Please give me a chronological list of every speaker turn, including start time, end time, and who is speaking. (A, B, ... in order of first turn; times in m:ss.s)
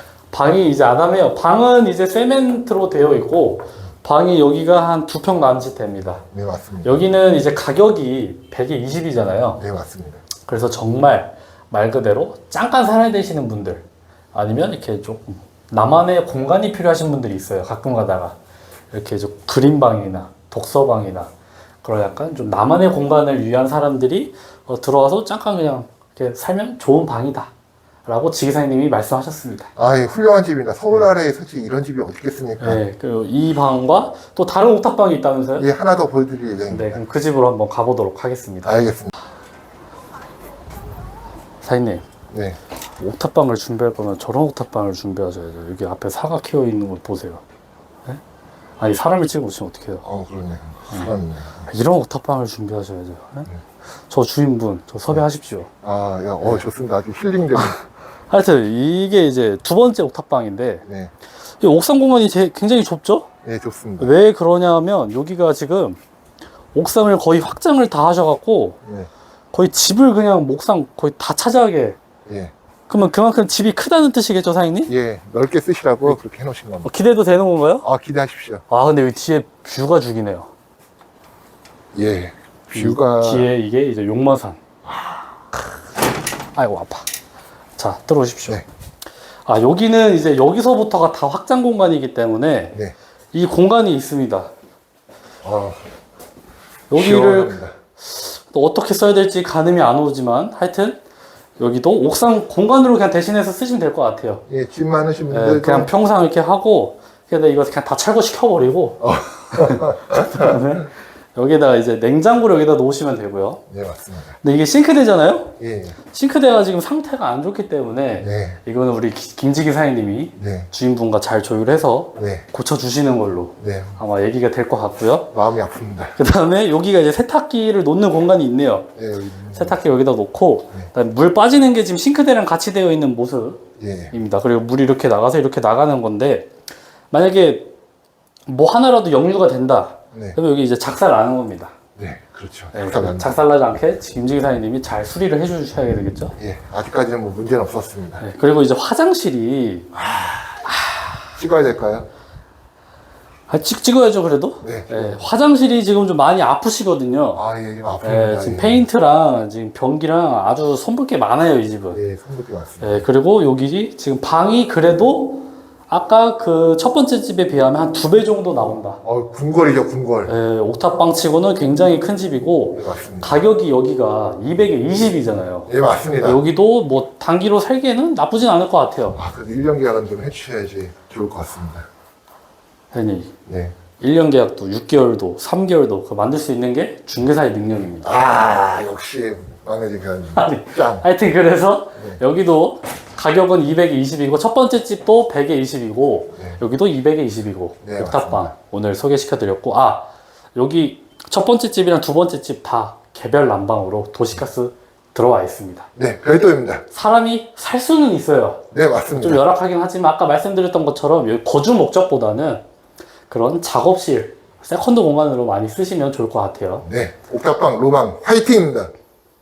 0:00.3-0:06.2 A
0:06.3-0:07.0 B
0:06.8-0:09.6 A
0:09.6-0:10.2 B
0:10.4-0:18.3 A
0:18.9-0:21.3 A
0:21.8-0:27.5 A
0:28.0-0:29.7 A
0:29.8-0:32.8 B
0:32.6-0:35.7 A
0:35.6-0:37.0 B
0:36.7-0:38.8 A
0:38.6-0:39.1 B
0:41.6-0:42.0 A
0:42.3-0:42.6 B
0:43.0-0:47.4 A
0:48.8-0:50.0 A
0:50.0-0:51.7 B
0:51.7-0:53.5 A
0:54.1-0:55.7 A
0:55.8-0:57.8 B
0:58.3-1:00.8 A
1:00.8-1:01.1 B
1:01.6-1:03.3 A
1:03.4-1:04.1 B
1:04.0-1:06.0 A
1:06.7-1:08.8 A
1:08.8-1:09.1 B
1:09.5-1:12.0 A
1:12.3-1:12.5 B
1:12.9-1:14.9 A
1:14.9-1:16.9 B
1:16.8-1:17.8 A
1:17.8-1:18.6 B
1:18.7-1:20.5 A
1:21.9-1:23.5 B
1:22.7-1:24.6 A
1:24.9-1:25.2 B
1:26.6-1:27.1 A
1:27.8-1:28.6 A
1:29.4-1:32.8 A
1:33.3-1:34.5 A
1:35.4-1:35.8 B
1:36.9-1:41.0 A
1:36.9-1:37.7 B
1:41.6-1:44.4 A
1:44.5-1:45.9 B
1:45.3-1:49.0 A
1:49.0-1:50.6 B
1:49.5-1:53.6 A
1:53.7-1:54.4 B
1:54.4-1:55.5 A
1:55.6-1:56.0 B
1:56.1-2:05.3 A
1:58.2-1:58.6 B
2:00.4-2:00.7 B
2:02.2-2:02.4 B
2:03.6-2:04.0 B
2:05.3-2:06.2 B
2:06.2-2:08.9 A
2:09.0-2:09.8 B
2:09.5-2:13.6 A
2:13.8-2:14.1 B
2:14.1-2:16.5 A
2:17.1-2:17.7 A
2:18.5-2:21.7 A
2:22.0-2:23.3 B
2:22.7-2:26.3 A
2:26.4-2:28.2 B
2:28.2-2:29.9 A
2:29.9-2:30.6 B
2:30.6-2:31.2 A
2:31.3-2:32.1 B
2:33.5-2:37.4 A
2:34.6-2:35.2 B
2:37.3-2:38.8 B
2:38.0-2:42.0 A
2:41.9-2:43.0 B
2:42.8-2:49.0 A
2:49.0-2:50.3 B
2:50.3-2:55.7 A
2:52.7-2:53.4 B
2:55.7-2:56.4 B
2:56.2-2:59.2 A
2:59.1-3:01.9 B
3:02.9-3:03.3 A
3:03.5-3:03.7 B
3:04.0-3:08.1 A
3:08.0-3:11.0 B
3:10.4-3:25.9 A
3:17.8-3:18.5 B
3:26.0-3:26.8 B
3:26.9-3:32.6 A
3:28.7-3:29.4 B
3:33.3-3:36.8 A
3:36.8-3:38.9 B